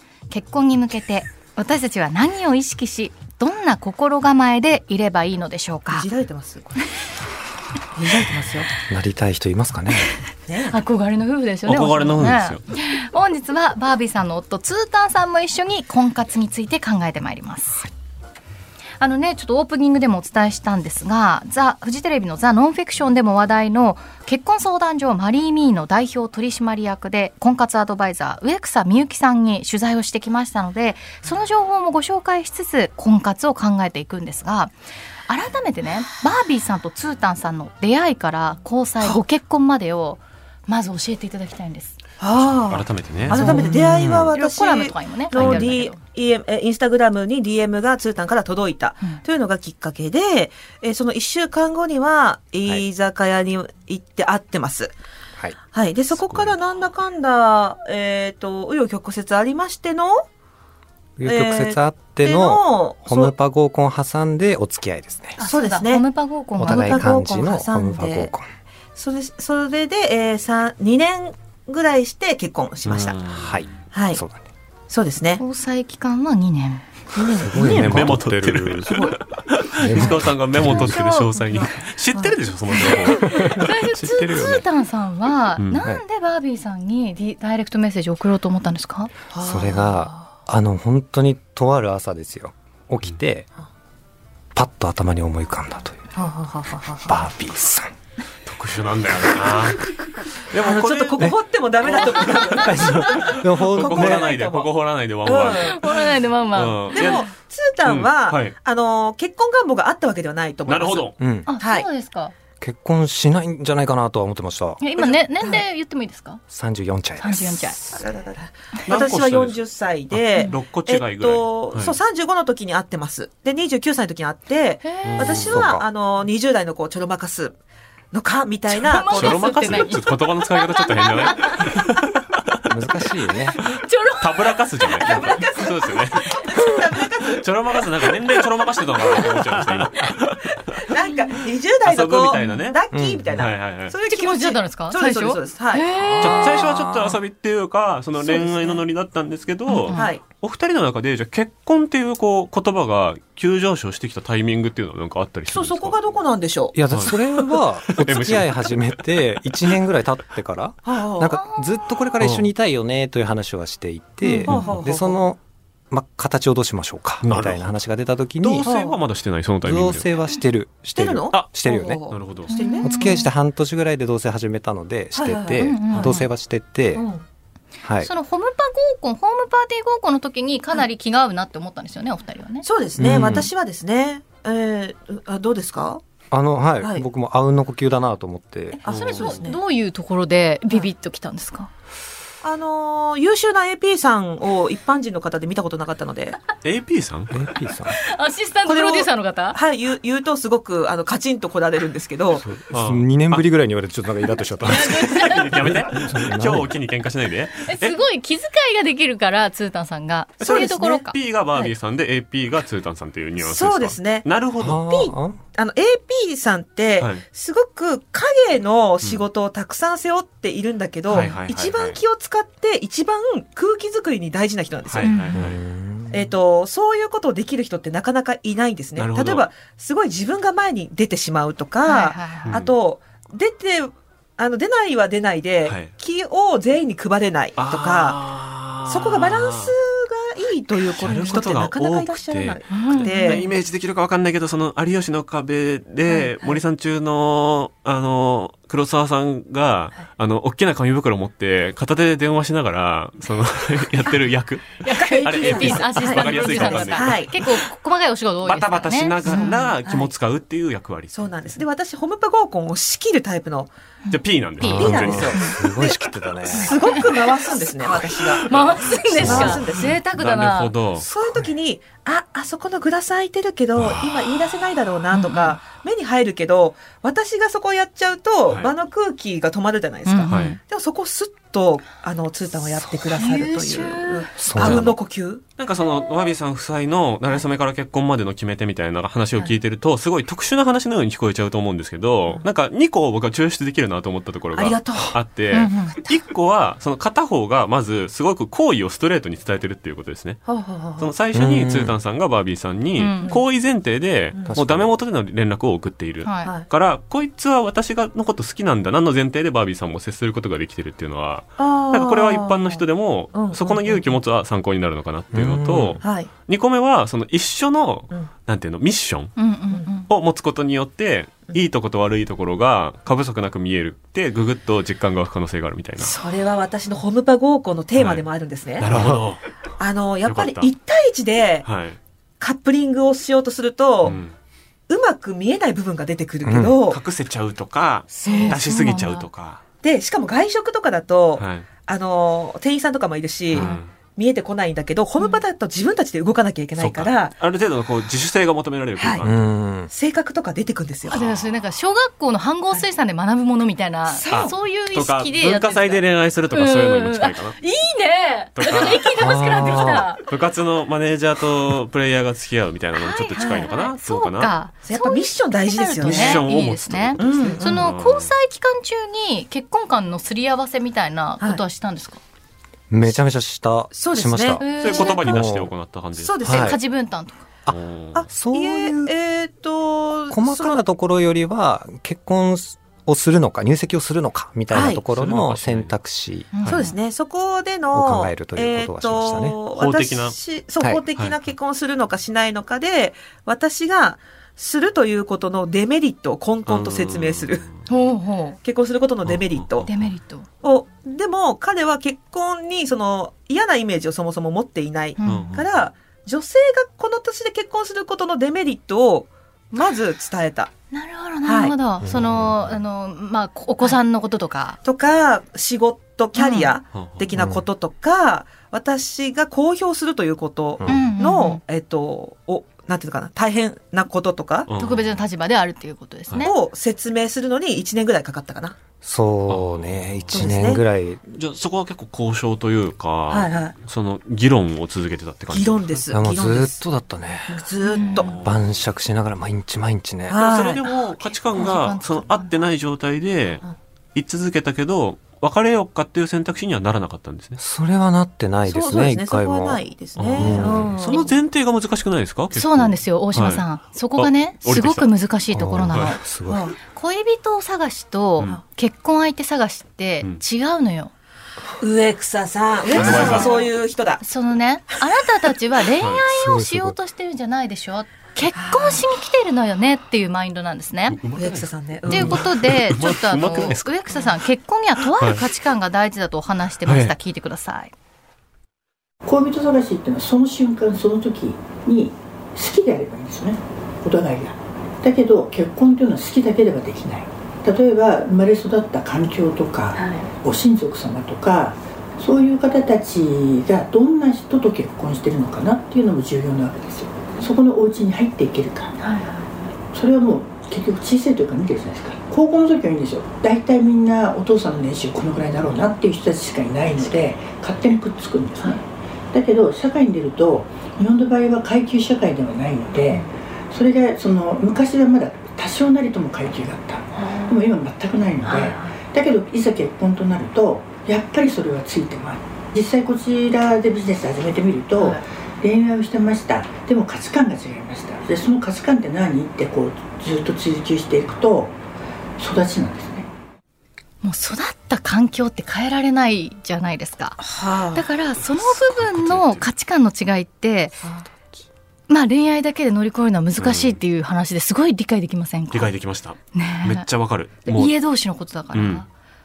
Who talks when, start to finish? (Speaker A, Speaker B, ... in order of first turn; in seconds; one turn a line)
Speaker A: 0.3-6.1
Speaker B: 5.9-6.8
Speaker B: 7.9-8.7
Speaker C: 8.9-10.1
Speaker B: 10.5-10.8
Speaker A: 10.7-17.8
Speaker D: 11.7-12.6
Speaker A: 19.0-34.8
Speaker A: 35.3-42.0
Speaker B: 42.2-54.9
Speaker D: 42.7-43.6
Speaker C: 43.3-44.4
Speaker A: 43.3-43.8
Speaker A: 44.3-46.0
Speaker B: 55.7-60.2
Speaker C: 61.2-65.4
Speaker B: 61.2-63.3
Speaker A: 65.4-67.2
Speaker B: 65.5-66.0
Speaker C: 66.6-68.5
Speaker B: 66.7-68.3
Speaker B: 68.9-73.2
Speaker D: 72.8-73.6
Speaker C: 73.2-74.4
Speaker B: 73.9-74.2
Speaker B: 74.9-75.4
Speaker A: 75.4-76.8
Speaker B: 77.1-78.0
Speaker C: 77.3-79.0
Speaker D: 77.5-83.6
Speaker C: 79.8-81.0
Speaker A: 80.6-81.6
Speaker B: 81.5-82.4
Speaker A: 82.8-89.1
Speaker C: 83.2-84.7
Speaker D: 85.6-85.8
Speaker B: 89.3-90.3
Speaker C: 89.4-93.5
Speaker C: 94.5-96.2
Speaker B: 96.2-97.2
Speaker C: 97.0-97.9
Speaker D: 98.4-99.9
Speaker D: 100.5-105.9
Speaker B: 100.6-104.7
Speaker A: 102.2-102.8
Speaker C: 102.7-104.3
Speaker B: 105.2-105.8
Speaker A: 105.5-107.3
Speaker D: 106.5-107.3
Speaker B: 106.9-111.9
Speaker D: 107.8-108.5
Speaker D: 110.7-111.1
Speaker C: 111.2-111.5
Speaker A: 111.5-112.3
Speaker C: 112.6-114.8
Speaker A: 114.8-116.4
Speaker B: 115.0-115.6
Speaker C: 116.5-117.8
Speaker A: 117.2-117.8
Speaker B: 117.9-127.6
Speaker D: 118.9-119.6
Speaker D: 120.1-121.9
Speaker A: 124.8-125.2
Speaker D: 125.0-125.8
Speaker C: 125.2-125.8
Speaker B: 128.1-129.4
Speaker A: 128.7-131.6
Speaker D: 129.1-132.3
Speaker C: 132.7-133.6
Speaker A: 133.6-135.4
Speaker D: 134.2-136.3
Speaker B: 135.0-137.5
Speaker A: 135.9-136.5
Speaker D: 137.4-140.6
Speaker A: 138.9-139.2
Speaker B: 140.8-145.8
Speaker D: 141.8-142.8
Speaker C: 142.9-143.5
Speaker D: 143.3-143.9
Speaker A: 144.1-147.1
Speaker C: 146.0-146.6
Speaker D: 146.2-155.9
Speaker B: 148.2-148.8
Speaker A: 149.7-150.1
Speaker B: 149.9-150.2
Speaker B: 155.5-156.8
Speaker C: 156.7-165.4
Speaker D: 156.9-159.8
Speaker B: 160.8-161.3
Speaker A: 161.3-161.8
Speaker D: 162.2-162.5
Speaker A: 164.2-164.5
Speaker B: 164.4-165.2
Speaker D: 164.5-164.8
Speaker C: 165.9-168.7
Speaker D: 167.2-167.8
Speaker D: 168.4-170.1
Speaker B: 168.6-169.0
Speaker C: 169.6-172.0
Speaker B: 170.9-173.2
Speaker D: 172.1-172.5
Speaker A: 172.5-173.3
Speaker C: 172.8-177.1
Speaker B: 175.1-176.1
Speaker A: 175.6-176.3
Speaker B: 176.9-177.2
Speaker C: 177.8-178.1
Speaker A: 178.0-182.6
Speaker B: 182.6-186.0
Speaker C: 183.0-183.5
Speaker C: 186.3-188.8
Speaker A: 188.7-191.7
Speaker D: 188.9-189.4
Speaker B: 188.9-189.6
Speaker B: 192.4-196.4
Speaker D: 196.6-197.3
Speaker C: 197.3-198.0
Speaker A: 197.9-199.6
Speaker B: 198.7-202.4
Speaker C: 202.4-206.7
Speaker D: 202.7-203.4
Speaker D: 204.3-208.0
Speaker A: 204.6-205.5
Speaker A: 207.6-211.2
Speaker D: 210.4-214.8
Speaker B: 210.4-210.9
Speaker B: 213.4-214.3
Speaker C: 214.6-215.4
Speaker B: 214.8-225.1
Speaker D: 217.0-217.2
Speaker D: 221.1-222.0
Speaker D: 224.9-225.6
Speaker A: 225.0-225.4
Speaker C: 225.3-226.3
Speaker B: 226.1-238.2
Speaker D: 228.9-229.5
Speaker A: 231.8-232.6
Speaker D: 232.4-232.7
Speaker D: 235.6-235.9
Speaker D: 237.6-239.7
Speaker B: 238.8-243.4
Speaker D: 240.8-257.6
Speaker A: 242.7-243.4
Speaker B: 246.2-246.6
Speaker A: 254.8-260.1
Speaker B: 254.8-257.4
Speaker D: 258.4-261.3
Speaker B: 261.1-263.7
Speaker A: 264.1-265.6
Speaker D: 264.1-265.3
Speaker C: 264.6-267.1
Speaker B: 264.8-269.9
Speaker A: 266.5-267.0
Speaker D: 268.2-271.1
Speaker A: 268.4-270.7
Speaker C: 269.1-269.9
Speaker B: 271.0-285.4
Speaker D: 273.8-274.0
Speaker A: 275.1-275.6
Speaker D: 278.5-278.7
Speaker A: 280.1-280.6
Speaker D: 280.3-280.6
Speaker C: 282.7-283.2
Speaker A: 283.1-284.3
Speaker C: 284.4-284.9
Speaker D: 284.6-284.9
Speaker D: 285.6-300.4
Speaker B: 294.5-295.1
Speaker A: 295.5-295.9
Speaker B: 300.4-301.1
Speaker D: 301.0-319.3
Speaker C: 301.3-302.0
Speaker A: 302.9-303.4
Speaker C: 304.5-304.9
Speaker A: 306.2-306.5
Speaker B: 311.6-314.2
Speaker C: 315.3-316.0
Speaker B: 316.0-316.3
Speaker A: 319.4-320.1
Speaker D: 320.1-326.1
Speaker B: 326.0-328.9
Speaker D: 327.9-329.5
Speaker C: 328.9-329.2
Speaker B: 329.8-331.7
Speaker D: 330.2-330.7
Speaker D: 331.6-332.0
Speaker B: 332.4-334.1
Speaker D: 334.0-334.3
Speaker B: 334.9-337.0
Speaker C: 336.4-336.8
Speaker D: 336.9-339.6
Speaker A: 338.2-339.3
Speaker B: 339.8-347.4
Speaker D: 341.4-341.7
Speaker D: 343.5-343.9
Speaker D: 346.8-349.4
Speaker C: 349.2-349.9
Speaker B: 349.9-351.2
Speaker D: 351.1-351.6
Speaker A: 351.1-360.2
Speaker B: 354.1-354.5
Speaker D: 354.3-357.6
Speaker D: 358.6-364.5
Speaker C: 359.2-360.1
Speaker A: 362.9-372.2
Speaker B: 363.4-363.7
Speaker B: 364.8-366.4
Speaker D: 366.0-368.3
Speaker B: 367.2-367.7
Speaker C: 372.9-375.7
Speaker B: 373.9-374.7
Speaker A: 374.6-375.3
Speaker D: 374.8-376.6
Speaker B: 376.2-376.7
Speaker C: 376.4-376.8
Speaker A: 376.4-377.4
Speaker D: 377.7-378.3
Speaker B: 378.2-380.8
Speaker C: 378.3-379.1
Speaker C: 380.3-386.5
Speaker B: 384.7-385.0
Speaker D: 384.8-385.9
Speaker A: 386.5-386.9
Speaker B: 386.7-397.6
Speaker C: 387.9-389.6
Speaker D: 389.7-390.4
Speaker D: 396.6-397.8
Speaker A: 397.9-398.6
Speaker B: 398.6-399.9
Speaker D: 399.2-400.0
Speaker A: 399.8-400.4
Speaker B: 400.6-410.7
Speaker A: 405.2-405.6
Speaker D: 405.2-405.6
Speaker A: 410.9-414.8
Speaker B: 411.4-411.7
Speaker C: 412.0-412.7
Speaker B: 414.8-424.7
Speaker A: 416.4-416.7
Speaker D: 416.9-417.2
Speaker C: 417.3-417.6
Speaker C: 420.8-421.1
Speaker A: 420.8-421.6
Speaker D: 424.7-425.2
Speaker A: 424.7-426.5
Speaker B: 426.4-428.8
Speaker C: 429.0-431.2
Speaker D: 429.5-430.5
Speaker B: 430.3-430.8
Speaker D: 431.3-436.0
Speaker B: 433.3-433.8
Speaker B: 435.5-436.8
Speaker C: 436.1-440.4
Speaker B: 437.5-438.3
Speaker A: 437.8-438.3
Speaker D: 438.2-438.6
Speaker B: 440.3-440.9
Speaker D: 440.4-443.6
Speaker A: 441.5-442.5
Speaker D: 444.1-447.6
Speaker C: 447.6-451.0
Speaker B: 448.7-451.3
Speaker D: 450.2-453.6
Speaker A: 452.5-456.2
Speaker D: 454.2-455.1
Speaker C: 455.5-456.7
Speaker D: 455.8-456.1
Speaker B: 456.5-456.7
Speaker A: 456.9-461.1
Speaker B: 461.8-464.2
Speaker D: 462.9-463.6
Speaker A: 462.9-471.2
Speaker C: 466.3-466.9
Speaker B: 468.5-469.1
Speaker D: 471.1-473.9
Speaker B: 471.4-472.4
Speaker A: 472.1-477.9
Speaker D: 475.0-475.4
Speaker D: 476.8-477.1
Speaker E: 479.2-498.9
Speaker A: 489.9-490.3
Speaker A: 499.0-499.5
Speaker E: 499.9-531.8
Speaker A: 517.1-517.6
Speaker A: 518.4-519.0
Speaker A: 525.0-525.2
Speaker E: 532.4-533.3
Speaker A: 534.2-541.0
Speaker B: 537.4-538.0
Speaker D: 538.4-539.6
Speaker B: 541.0-541.3
Speaker A: 542.1-545.9
Speaker D: 543.6-544.0
Speaker D: 545.7-547.9
Speaker A: 546.5-547.1
Speaker A: 547.6-549.1
Speaker D: 548.7-549.0